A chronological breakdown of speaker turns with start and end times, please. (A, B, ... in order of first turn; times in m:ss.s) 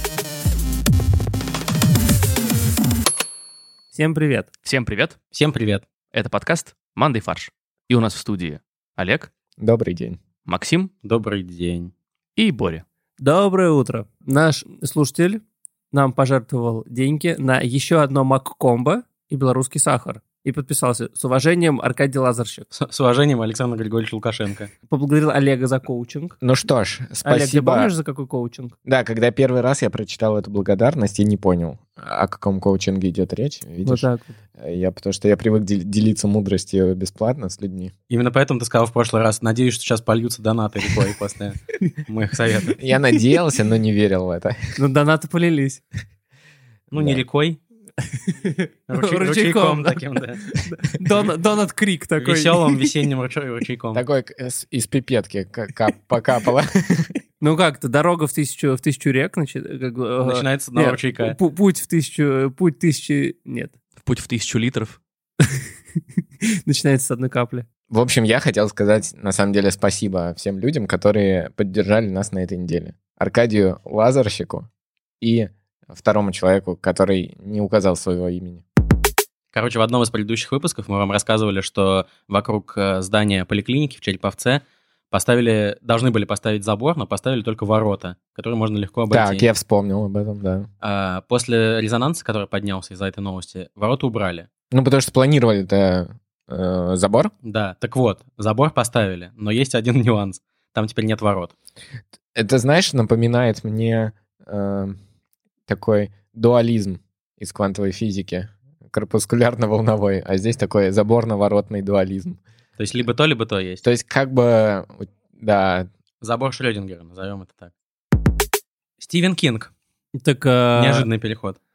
0:03.9-0:04.5 A
0:04.6-0:05.2 B
0:05.3-0:05.8 C
0:06.1-0:09.3 B
0:09.6-0:10.2 D
0:10.4-0:10.9 B
0:11.0-0:11.9 C
0:12.4-0:12.8 B
0:13.2-0:22.7 A
0:22.7-0:24.7 C
0:24.9-0:26.4 A
0:26.4-0:27.9 D
0:27.2-0:28.7 A
0:28.8-0:34.1 D
0:33.8-0:34.3 A
0:34.6-0:37.9 D
0:38.1-0:42.8 C
0:42.8-0:44.7 D
0:44.8-0:45.8 A
0:46.9-0:47.2 D
0:46.9-0:47.6 C
0:48.2-0:52.9 A
0:48.9-0:50.5 C
0:52.2-0:54.0 C
0:53.9-0:57.1 D
0:57.4-1:03.7 A
1:00.2-1:01.4 C
1:04.0-1:05.0 B
1:06.6-1:07.6 A
1:07.9-1:14.7 D
1:15.2-1:18.6 D
1:19.5-1:29.4 C
1:29.1-1:30.7 D
1:30.8-1:34.5 C
1:34.7-1:37.3 D
1:37.4-1:41.5 C
1:42.3-1:45.0 D
1:45.7-1:52.4 D
1:52.8-1:53.8 C
1:53.8-1:55.9 D
1:56.2-1:57.7 C
1:59.0-1:59.7 C
2:00.2-2:01.1 A
2:00.7-2:01.6 C